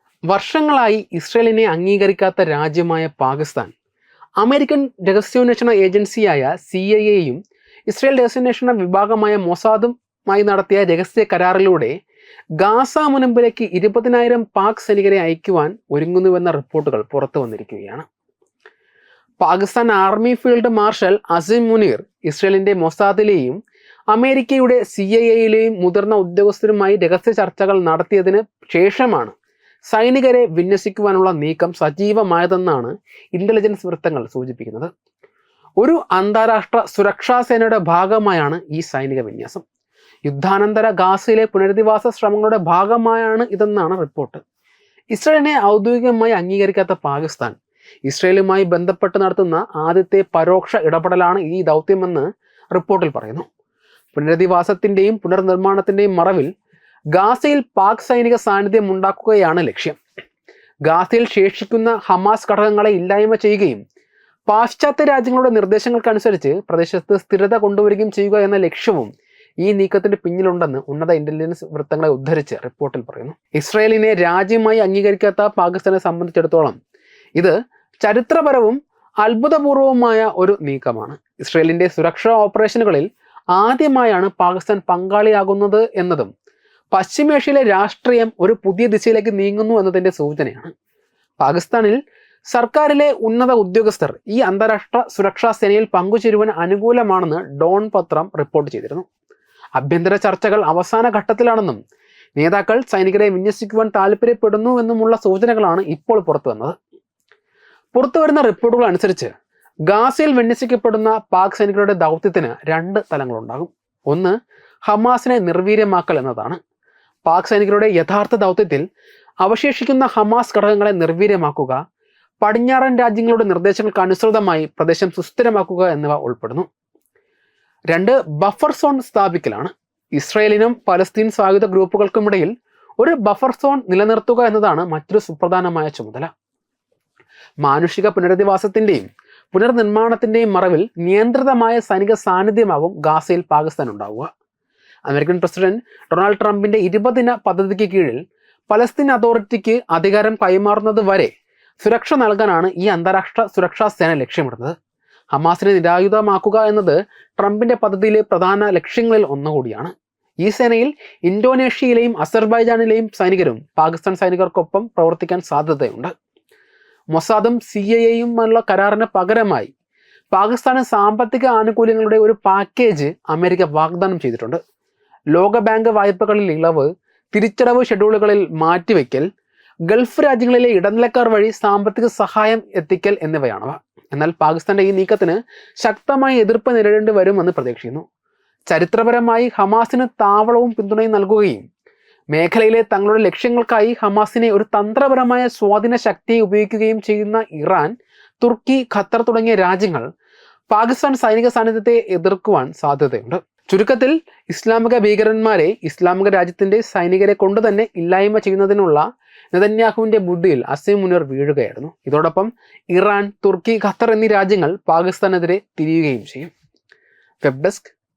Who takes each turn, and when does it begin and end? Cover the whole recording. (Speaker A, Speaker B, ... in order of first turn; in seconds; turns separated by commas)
Speaker A: 0.3-3.7, Speaker A: 4.4-11.9, Speaker A: 12.6-18.0, Speaker A: 19.4-23.6, Speaker A: 24.1-29.3, Speaker A: 29.9-34.9, Speaker A: 35.8-39.6, Speaker A: 40.2-44.4, Speaker A: 45.1-53.4, Speaker A: 54.1-56.5, Speaker A: 57.1-60.0, Speaker A: 60.8-63.8, Speaker A: 64.5-69.1, Speaker A: 69.6-76.8, Speaker A: 77.4-86.3, Speaker A: 86.9-90.7, Speaker A: 91.4-92.0, Speaker A: 92.5-99.0, Speaker A: 99.8-101.8, Speaker A: 102.4-106.7, Speaker A: 107.9-109.3, Speaker A: 109.9-114.3, Speaker A: 114.8-116.6, Speaker A: 117.2-118.8, Speaker A: 119.4-121.8, Speaker A: 122.4-126.7, Speaker A: 127.9-136.3, Speaker A: 137.6-144.3, Speaker A: 145.1-154.7, Speaker A: 155.3-166.1, Speaker A: 167.1-169.7, Speaker A: 170.3-174.6, Speaker A: 175.3-179.2, Speaker A: 179.9-188.0, Speaker A: 188.7-191.6, Speaker A: 192.3-200.0, Speaker A: 200.7-216.5, Speaker A: 217.4-217.9